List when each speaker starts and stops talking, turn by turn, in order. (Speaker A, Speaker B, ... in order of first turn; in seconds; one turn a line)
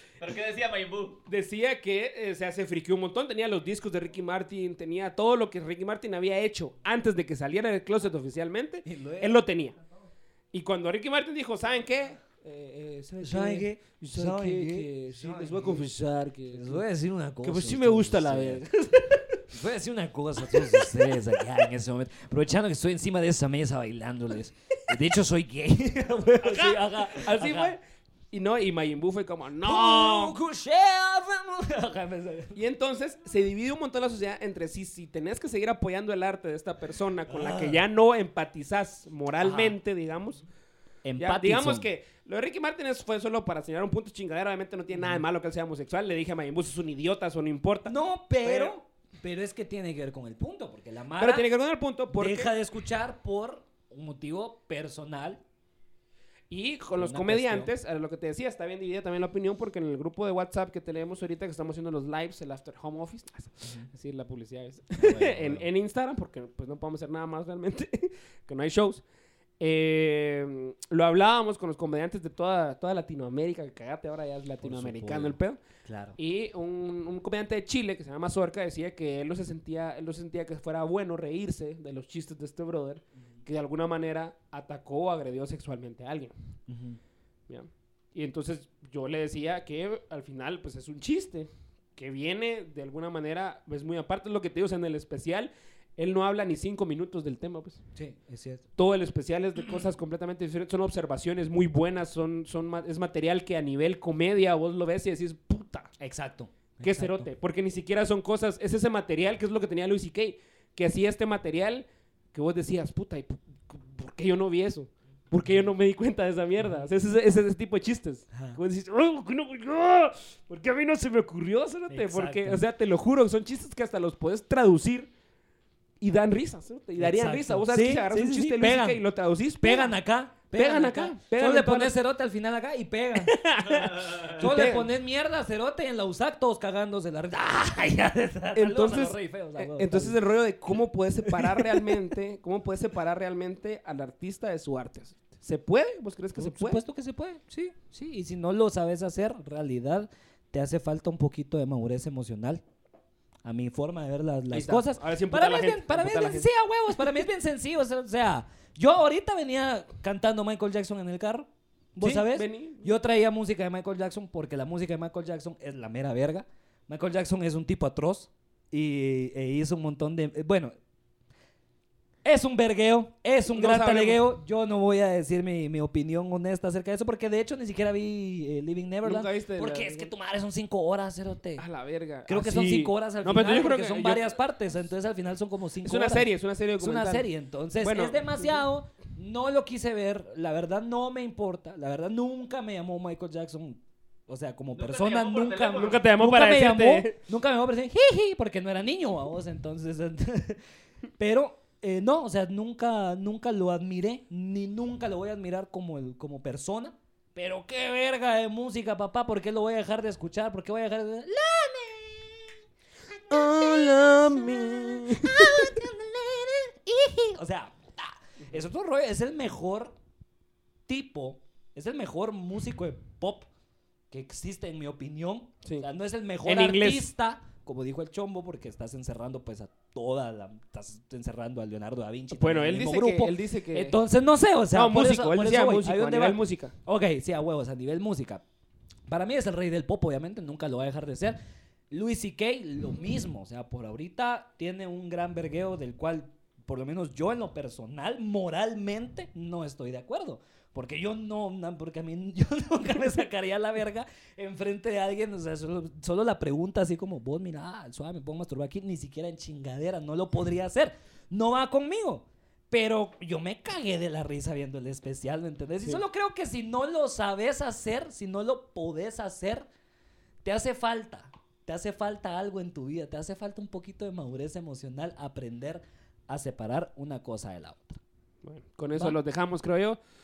Speaker A: 0.2-1.2
Speaker B: 1.3-9.8
Speaker C: 8.8-9.4
Speaker B: 10.5-16.8
Speaker C: 13.2-15.8
Speaker C: 16.5-18.7
Speaker B: 17.4-19.4
Speaker C: 19.5-27.8
Speaker B: 20.5-21.2
Speaker B: 26.4-27.8
Speaker B: 28.3-30.4
Speaker C: 29.6-32.6
Speaker B: 32.5-40.4
Speaker C: 37.3-37.8
Speaker C: 39.4-39.8
Speaker C: 41.0-41.9
Speaker B: 41.2-48.7
Speaker C: 45.0-45.2
Speaker C: 47.9-51.5
Speaker B: 51.2-52.5
Speaker C: 52.1-55.4
Speaker B: 56.5-69.0
Speaker C: 57.0-57.7
Speaker C: 65.0-65.7
Speaker B: 69.6-75.6
Speaker C: 74.6-76.2
Speaker B: 76.2-86.3
Speaker C: 86.7-87.0
Speaker B: 87.5-97.8
Speaker C: 98.0-98.6
Speaker B: 98.8-105.9
Speaker C: 106.0-107.3
Speaker B: 106.8-125.1
Speaker C: 118.3-118.6
Speaker C: 121.9-122.6
Speaker B: 126.0-129.9
Speaker C: 127.0-129.0
Speaker C: 129.6-133.4
Speaker B: 130.5-131.9
Speaker B: 133.2-134.9
Speaker A: 133.8-134.2
Speaker C: 134.3-140.2
Speaker B: 138.5-146.8
Speaker C: 141.3-141.9
Speaker C: 146.4-152.6
Speaker C: 153.4-170.7
Speaker B: 154.5-156.5
Speaker B: 162.0-162.9
Speaker C: 172.2-181.6
Speaker B: 173.5-174.2
Speaker B: 179.0-180.1
Speaker B: 181.6-184.3
Speaker C: 182.3-186.3
Speaker B: 185.8-188.6
Speaker C: 186.8-200.6
Speaker A: 194.7-196.0
Speaker B: 195.7-197.2
Speaker C: 201.2-212.5
Speaker C: 213.1-219.9
Speaker B: 213.3-215.8
Speaker C: 220.9-223.5
Speaker C: 224.1-238.4
Speaker B: 226.4-227.1
Speaker B: 232.3-233.9
Speaker B: 234.7-236.7
Speaker C: 239.1-241.4
Speaker C: 241.9-269.7
Speaker C: 270.4-278.0
Speaker B: 278.4-280.0